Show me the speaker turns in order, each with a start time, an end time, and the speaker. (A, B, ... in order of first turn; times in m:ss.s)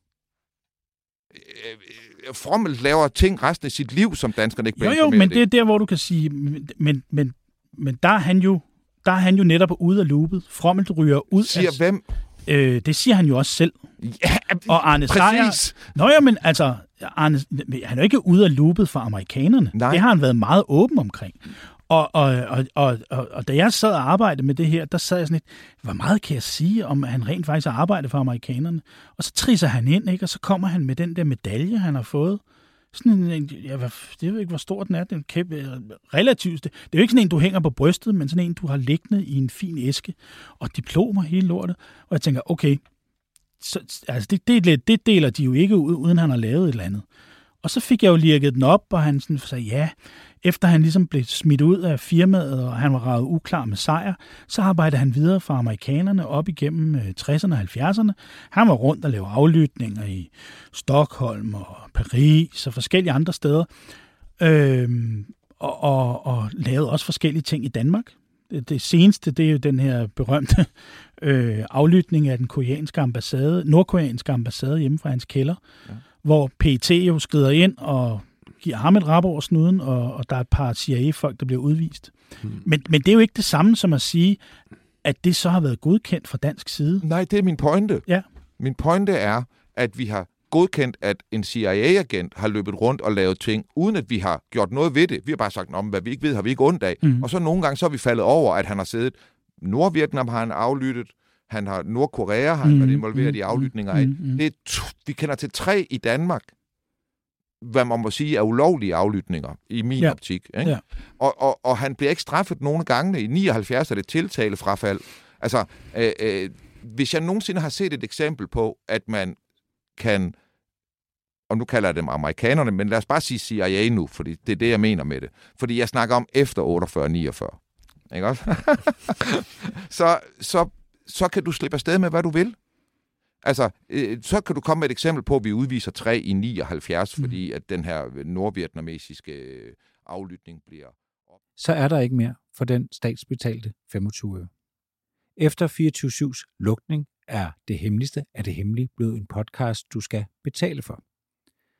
0:01.3-0:05.4 A
0:04.8-0:11.8 B
0:11.4-0:12.0 A
0:12.4-0:13.8 B
0:14.0-0:15.8 A
0:14.6-0:42.8 B
0:19.7-0:20.0 A
0:43.6-0:47.0 B
0:47.6-1:03.7 B
1:04.4-1:15.6 B
1:16.2-1:24.4 B
1:25.0-1:27.0 B
1:27.0-1:28.1 A
1:28.6-1:46.5 A
1:37.0-1:37.3 B
1:42.6-1:44.4 B
1:47.6-1:59.4 A
1:50.0-1:50.8 B
2:00.0-2:00.3 A
2:01.5-2:07.6 A
2:08.1-2:12.6 A
2:13.4-2:20.9 A
2:21.6-2:24.5 C
2:25.4-2:31.0 C